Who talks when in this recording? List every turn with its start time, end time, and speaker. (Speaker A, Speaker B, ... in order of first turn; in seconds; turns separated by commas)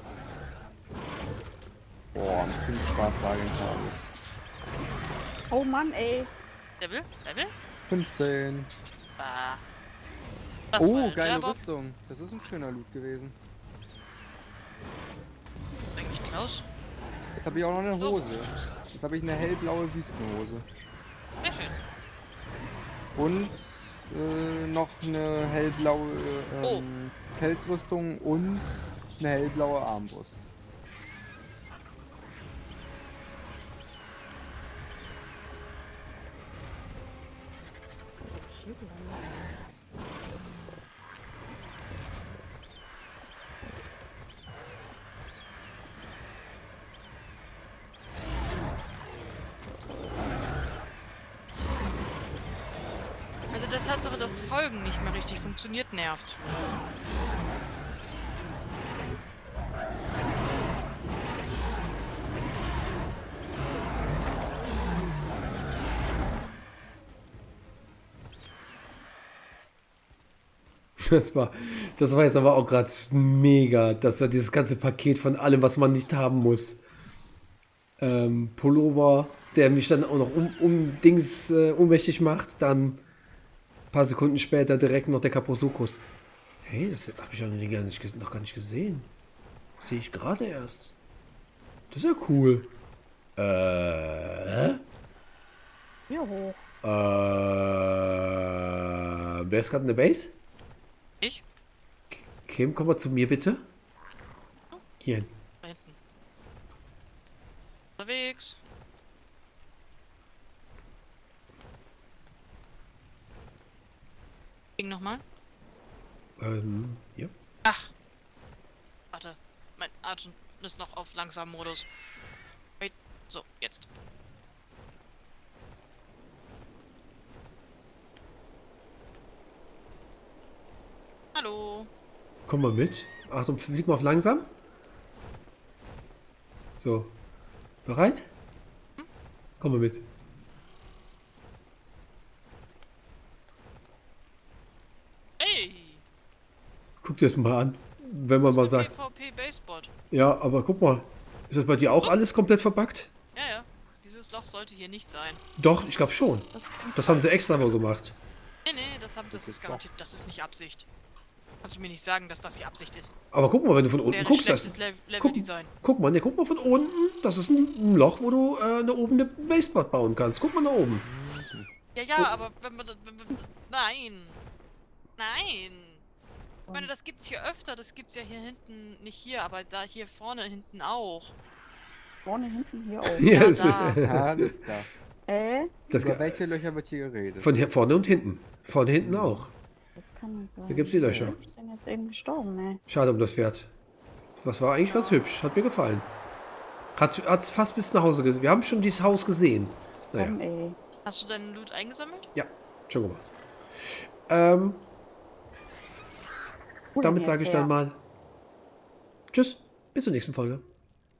Speaker A: 2.1-4.1, Speaker B: 5.5-6.3, Speaker C: 6.8-7.5, Speaker A: 7.9-8.7, Speaker C: 9.2-9.6, Speaker C: 10.7-11.6, Speaker A: 10.8-13.4, Speaker C: 16.0-16.7, Speaker A: 17.4-20.7, Speaker C: 17.5-18.2, Speaker C: 21.4-21.8, Speaker A: 23.1-30.4, Speaker B: 38.5-39.2, Speaker C: 53.5-56.5, Speaker D: 71.0-76.8, Speaker D: 78.0-83.0, Speaker D: 83.9-86.0, Speaker D: 86.6-89.1, Speaker D: 89.8-90.9, Speaker D: 91.9-92.7, Speaker D: 93.4-94.8, Speaker B: 96.1-96.7, Speaker D: 96.8-100.3, Speaker D: 102.1-103.6, Speaker D: 105.0-105.3, Speaker C: 105.6-106.0, Speaker C: 108.0-108.6, Speaker C: 114.8-115.2, Speaker D: 116.4-117.3, Speaker C: 117.6-117.9, Speaker C: 119.1-121.9, Speaker C: 122.8-123.9, Speaker C: 131.3-131.9, Speaker D: 132.5-134.5, Speaker D: 136.8-137.2, Speaker D: 137.8-138.3, Speaker D: 139.6-140.1, Speaker C: 145.4-146.0, Speaker D: 147.0-148.9, Speaker C: 148.5-149.9, Speaker D: 150.1-153.1, Speaker C: 153.3-155.4, Speaker D: 155.6-158.1, Speaker B: 156.5-157.3, Speaker C: 158.6-160.9, Speaker A: 159.3-159.8, Speaker C: 161.6-163.2, Speaker D: 163.3-171.1, Speaker C: 164.1-165.7, Speaker A: 171.0-171.7, Speaker C: 171.9-174.4, Speaker C: 175.2-176.0, Speaker C: 176.7-181.3, Speaker B: 182.2-183.4, Speaker D: 183.1-184.5, Speaker C: 183.3-184.0, Speaker A: 184.0-184.9, Speaker B: 185.3-185.8, Speaker D: 185.9-186.4, Speaker A: 185.9-187.5, Speaker D: 187.4-189.5, Speaker A: 189.0-189.5, Speaker B: 190.0-192.8, Speaker D: 190.7-191.4, Speaker A: 191.1-191.3, Speaker D: 192.9-193.7, Speaker D: 194.4-196.1, Speaker D: 197.0-200.4, Speaker B: 200.2-200.8, Speaker C: 201.1-202.3, Speaker D: 202.3-203.2, Speaker D: 203.8-204.8, Speaker B: 206.9-207.7, Speaker D: 207.0-208.0, Speaker D: 209.3-210.6